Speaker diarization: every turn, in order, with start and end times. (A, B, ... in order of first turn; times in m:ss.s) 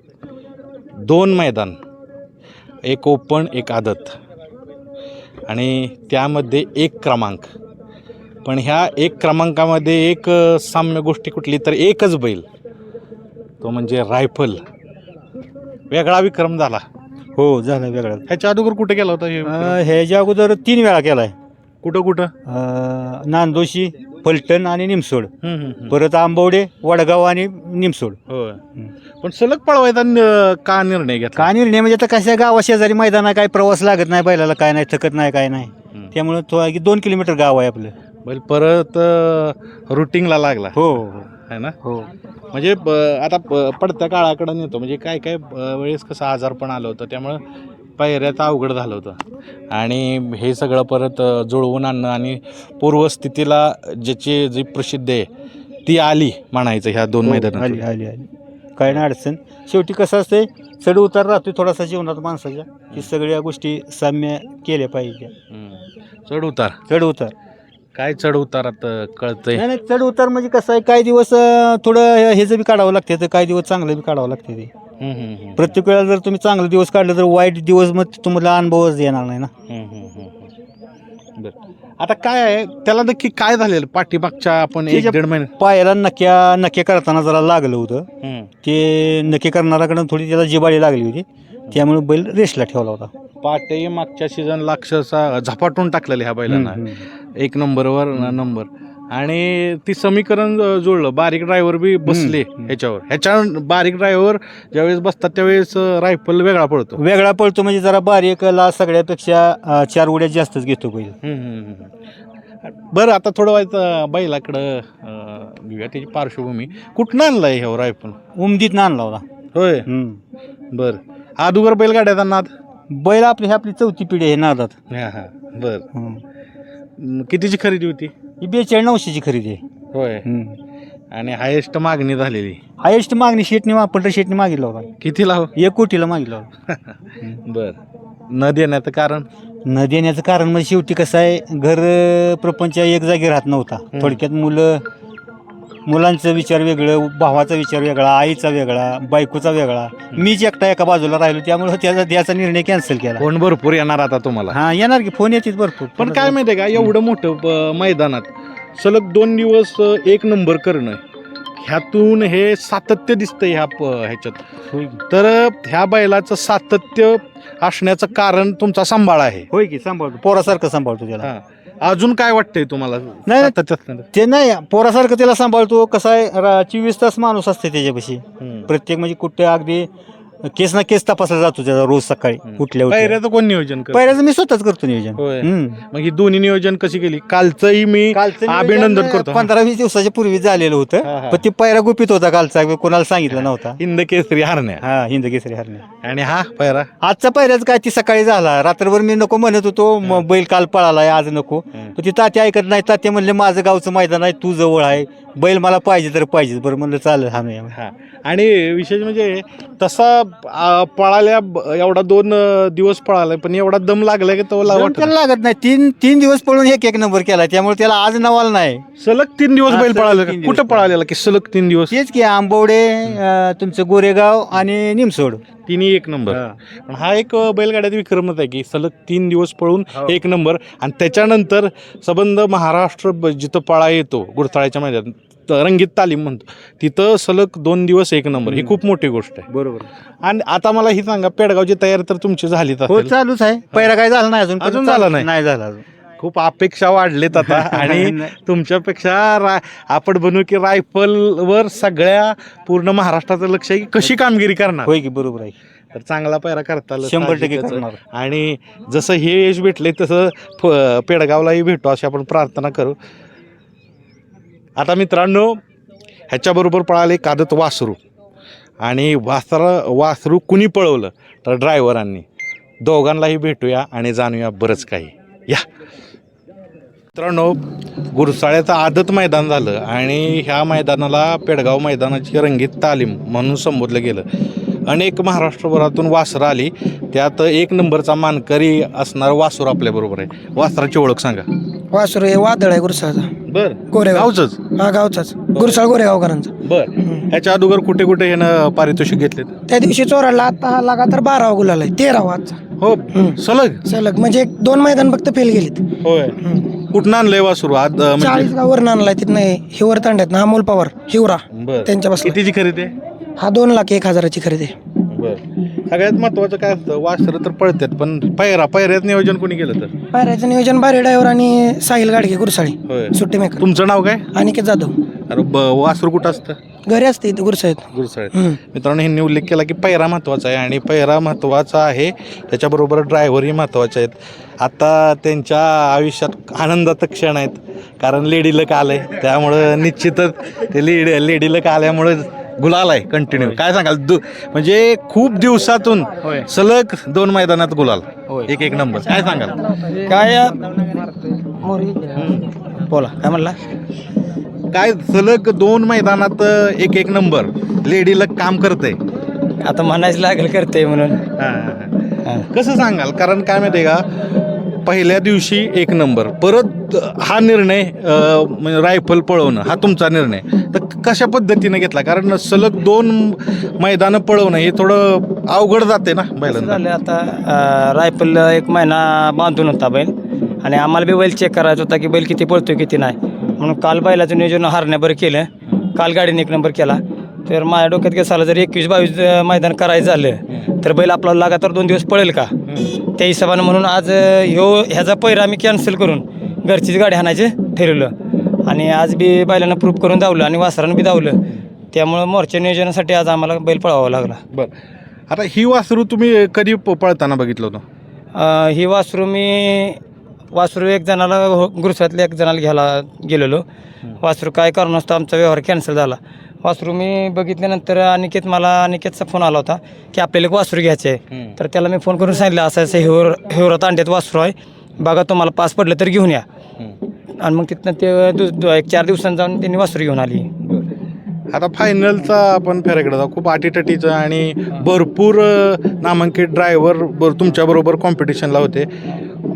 0:01.0-0:01.8 A
0:02.9-0:04.2 A
0:05.5-0:07.5 A
0:08.4-0:12.5 A
0:13.6-0:14.6 A
0:15.9-0:16.8 A
0:17.4-0:18.2 B
0:18.3-0:19.8 A
0:19.4-0:21.3 B
0:21.8-0:22.3 A
0:22.5-0:25.3 B
0:25.4-0:26.0 A
0:25.9-0:28.2 B
0:28.3-0:28.6 A
0:29.2-0:31.5 A
0:31.4-0:37.9 B
0:38.2-0:40.8 A
0:40.8-0:41.3 B
0:41.4-0:41.8 A
0:41.8-0:42.1 B
0:42.5-0:47.4 A
0:48.0-0:49.2 A
0:49.7-0:55.3 A
0:55.9-0:57.8 A
0:57.2-1:05.3 B
1:05.5-1:06.8 A
1:06.9-1:07.3 B
1:08.0-1:09.6 A
1:09.5-1:14.7 B
1:15.0-1:15.7 A
1:15.6-1:19.5 B
1:19.7-1:20.5 A
1:21.4-1:25.5 A
1:24.9-1:28.1 B
1:28.2-1:28.5 A
1:28.6-1:33.1 B
1:33.4-1:36.8 A
1:36.5-1:37.0 B
1:37.4-1:47.0 A
1:42.1-1:42.8 B
1:47.0-1:51.2 B
1:51.2-1:51.9 A
1:52.8-1:58.2 A
1:58.4-1:59.2 B
1:59.6-1:59.9 A
1:59.9-2:00.2 B
2:00.7-2:02.5 A
2:02.9-2:04.8 B
2:04.9-2:05.9 A
2:05.9-2:06.2 B
2:07.0-2:08.1 A
2:08.4-2:09.6 B
2:09.9-2:10.2 A
2:10.2-2:10.6 B
2:11.1-2:12.6 A
2:12.8-2:14.9 B
2:15.0-2:15.5 A
2:15.6-2:16.5 B
2:16.7-2:19.3 A
2:19.7-2:24.8 B
2:23.9-2:24.2 A
2:25.9-2:33.3 B
2:33.2-2:34.6 A
2:34.5-2:36.9 B
2:36.0-2:41.0 A
2:41.6-2:44.4 A
2:44.7-2:45.0 B
2:45.1-2:49.5 A
2:49.5-2:51.3 B
2:51.2-2:54.1 A
2:53.3-2:53.6 B
2:54.1-2:59.9 B
2:58.4-2:58.7 A
3:00.4-3:03.2 B
3:02.4-3:04.2 A
3:03.9-3:05.8 B
3:05.2-3:09.5 A
3:08.1-3:13.8 B
3:11.0-3:11.5 A
3:13.3-3:14.8 A
3:14.8-3:15.8 B
3:16.0-3:16.9 A
3:17.0-3:27.7 B
3:27.7-3:35.1 A
3:34.7-3:38.8 B
3:39.0-3:41.9 A
3:39.7-3:40.9 B
3:41.9-3:45.4 B
3:45.7-3:59.5 A
3:46.3-3:46.6 B
3:58.5-3:58.8 B
3:59.5-3:59.9 B
4:00.2-4:03.1 A
4:02.9-4:05.8 B
4:04.6-4:05.3 A
4:06.2-4:14.9 A
4:07.4-4:08.3 B
4:14.8-4:15.6 B
4:15.9-4:23.0 A
4:17.0-4:18.0 B
4:24.8-4:25.6 A
4:26.3-4:28.0 A
4:28.8-4:32.2 A
4:32.8-4:35.7 A
4:37.2-4:37.6 A
4:38.1-4:44.3 A
4:44.9-4:51.5 A
4:51.9-4:53.3 C
4:53.5-4:54.6 A
4:53.9-4:57.2 C
4:55.5-4:55.8 A
4:56.6-4:59.5 A
4:59.7-5:02.6 C
5:02.8-5:03.8 A
5:03.1-5:05.9 C
5:06.0-5:06.4 A
5:06.4-5:06.8 C
5:06.9-5:08.5 A
5:08.2-5:12.4 C
5:11.5-5:12.9 A
5:13.4-5:14.8 C
5:15.1-5:19.9 A
5:20.1-5:23.6 C
5:22.9-5:24.3 A
5:24.3-5:25.0 C
5:25.3-5:26.6 A
5:26.9-5:28.6 C
5:27.9-5:49.7 A
5:49.9-5:51.1 D
5:51.6-5:52.5 A
5:51.6-5:52.2 D
5:52.9-5:53.6 D
5:54.7-5:59.0 A
5:59.6-6:01.2 D
6:01.4-6:04.3 A
6:04.8-6:16.8 A
6:16.5-6:32.5 D
6:32.7-6:32.9 A
6:33.2-6:38.1 D
6:38.7-6:41.4 D
6:41.9-6:44.4 D
6:45.3-6:47.8 A
6:48.3-6:50.0 D
6:50.5-6:53.6 D
6:54.2-7:06.4 D
7:01.3-7:01.6 A
7:07.4-7:10.5 D
7:11.5-7:18.9 A